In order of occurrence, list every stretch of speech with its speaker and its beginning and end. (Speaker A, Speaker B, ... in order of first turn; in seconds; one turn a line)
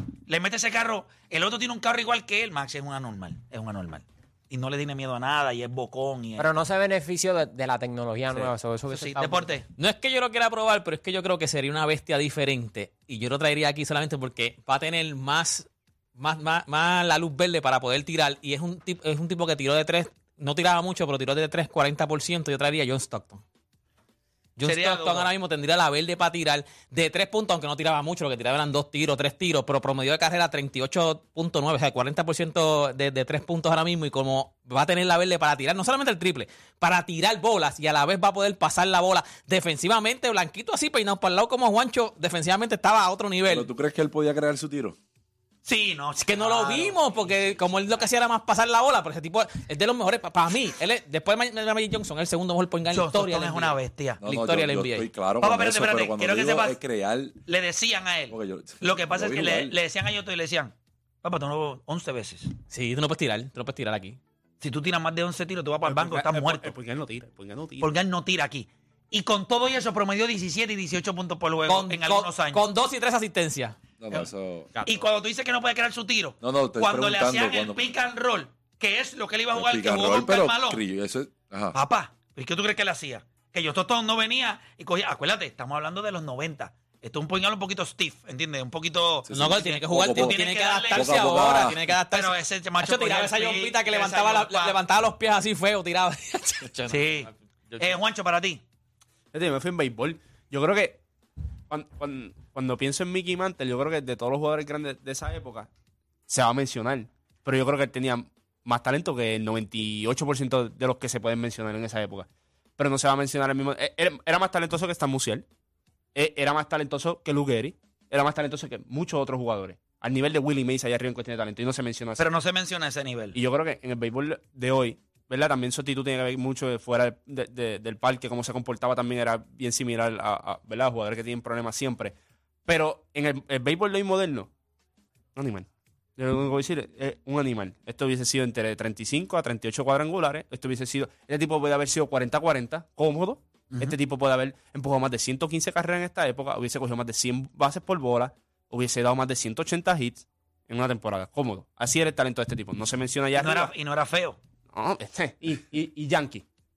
Speaker A: 0.3-6.5
Speaker B: 6.4-9.5
Speaker A: 8.9-9.6
Speaker C: 9.8-23.4
Speaker C: 24.6-43.7
Speaker A: 24.6-25.3
Speaker D: 43.5-45.0
Speaker A: 45.6-47.7
Speaker C: 46.2-55.1
Speaker A: 52.9-54.2
Speaker D: 54.2-57.4
Speaker A: 55.4-56.8
Speaker A: 57.5-62.5
Speaker D: 58.3-59.7
Speaker C: 62.7-64.2
Speaker A: 64.6-66.7
Speaker E: 65.8-67.9
Speaker A: 67.8-72.6
Speaker C: 71.7-73.8
Speaker D: 74.0-74.7
Speaker E: 74.7-75.0
Speaker A: 74.8-80.8
Speaker D: 76.4-77.9
Speaker D: 79.5-81.8
Speaker A: 81.7-94.8
Speaker D: 89.3-91.8
Speaker C: 89.3-98.0
Speaker A: 96.9-98.6
Speaker E: 99.3-101.0
Speaker E: 101.7-105.7
Speaker E: 106.3-115.4
Speaker E: 116.1-122.2
Speaker A: 122.2-123.4
Speaker E: 123.3-132.1
Speaker E: 132.7-134.5
Speaker E: 135.3-153.7
Speaker A: 143.7-144.0
Speaker A: 153.4-154.4
Speaker E: 154.7-156.4